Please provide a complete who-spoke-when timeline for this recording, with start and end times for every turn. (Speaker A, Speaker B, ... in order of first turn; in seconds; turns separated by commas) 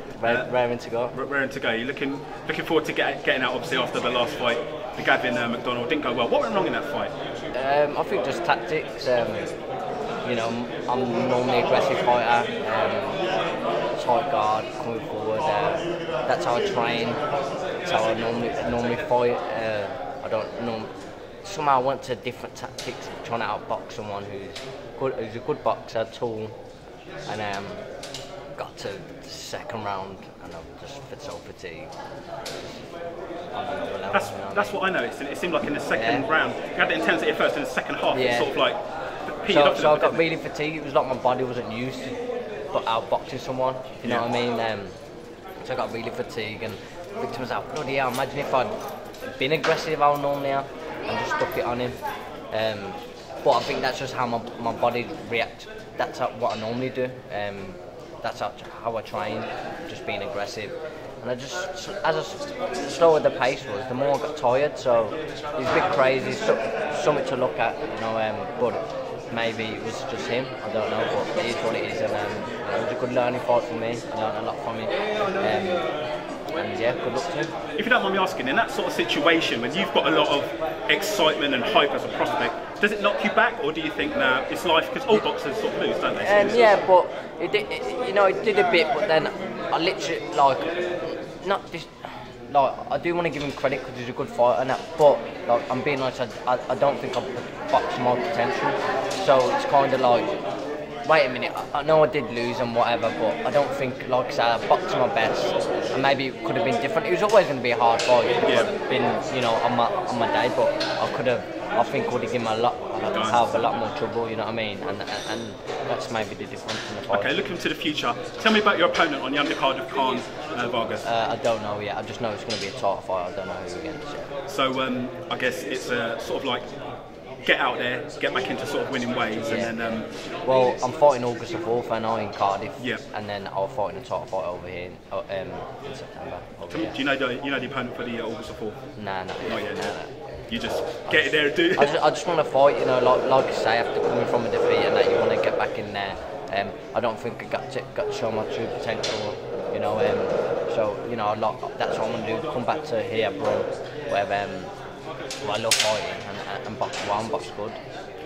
Speaker A: 0.2-1.1, Speaker B: 0.2-0.5, Speaker B: 1.1-7.1, Speaker A: 7.5-9.5, Speaker A: 10.2-13.2, Speaker A: 13.9-17.2, Speaker A: 17.8-20.9, Speaker A: 21.4-26.6, Speaker A: 27.2-27.8, Speaker A: 28.6-31.9, Speaker A: 33.5-34.8, Speaker B: 34.1-38.8, Speaker A: 35.9-36.2, Speaker A: 38.1-38.5, Speaker B: 39.4-40.2, Speaker A: 39.5-42.2, Speaker A: 42.7-45.0, Speaker B: 44.0-44.3, Speaker A: 45.6-52.0, Speaker A: 52.5-75.9, Speaker A: 76.5-77.5, Speaker B: 77.8-86.8, Speaker A: 86.2-90.7, Speaker A: 91.4-100.3, Speaker A: 101.0-117.5, Speaker B: 108.4-108.7, Speaker B: 113.1-113.6, Speaker B: 117.1-121.0, Speaker A: 121.0-124.3, Speaker B: 124.5-126.7, Speaker B: 127.4-130.1, Speaker A: 129.4-136.9, Speaker B: 136.7-138.8, Speaker A: 138.9-154.7, Speaker B: 139.4-139.9, Speaker B: 140.5-142.0, Speaker A: 155.4-157.8